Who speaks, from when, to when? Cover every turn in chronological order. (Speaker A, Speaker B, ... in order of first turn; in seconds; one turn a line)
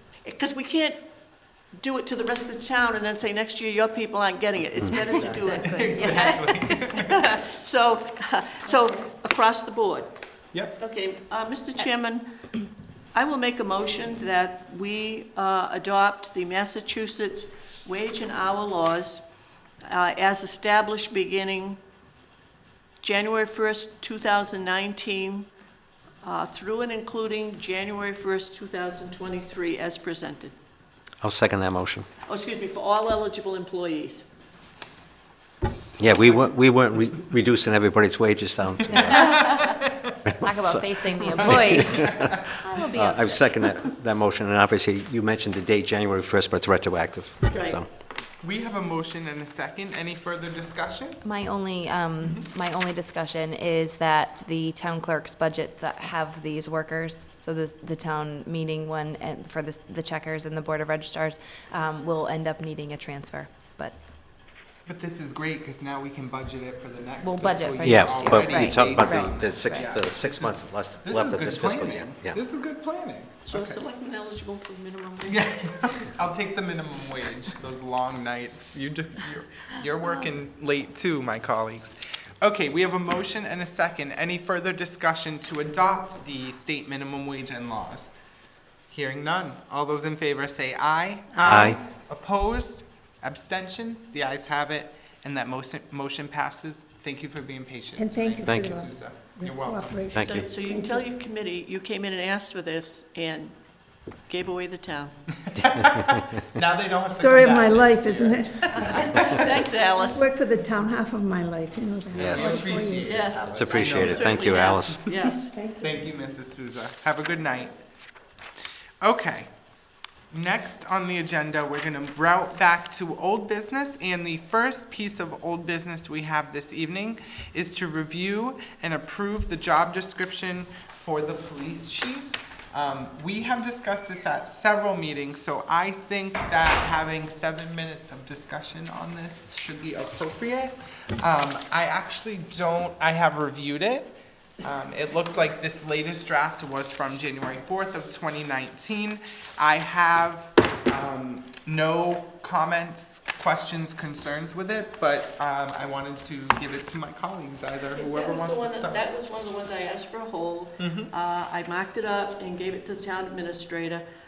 Speaker A: 0.2-1.0
Speaker A: 1.8-10.1
Speaker B: 5.0-7.2
Speaker C: 5.1-6.7
Speaker A: 10.7-12.2
Speaker A: 13.1-19.2
Speaker A: 19.9-21.8
Speaker A: 23.0-25.5
Speaker A: 26.2-30.5
Speaker D: 31.2-32.0
Speaker A: 32.3-34.3
Speaker D: 36.0-39.4
Speaker B: 39.0-40.2
Speaker C: 39.1-39.7
Speaker D: 40.2-47.9
Speaker C: 40.4-43.5
Speaker B: 41.4-42.3
Speaker A: 47.5-47.8
Speaker B: 48.4-51.2
Speaker C: 51.2-64.0
Speaker B: 52.2-52.5
Speaker B: 64.8-73.8
Speaker C: 67.2-69.9
Speaker D: 67.8-72.4
Speaker A: 73.5-75.4
Speaker B: 75.2-88.1
Speaker B: 88.9-100.1
Speaker D: 91.4-91.8
Speaker E: 98.0-101.0
Speaker D: 98.4-98.7
Speaker D: 100.1-100.4
Speaker A: 100.2-103.5
Speaker A: 104.3-105.2
Speaker B: 105.5-109.4
Speaker D: 105.6-106.4
Speaker E: 107.1-113.2
Speaker A: 108.7-110.3
Speaker B: 112.1-114.8
Speaker D: 112.2-112.5
Speaker A: 113.0-115.5
Speaker D: 113.4-115.1
Speaker E: 115.3-116.0
Speaker B: 115.8-117.8
Speaker B: 119.0-119.5
Speaker B: 120.3-159.0
Speaker A: 157.9-164.0
Speaker B: 160.8-161.1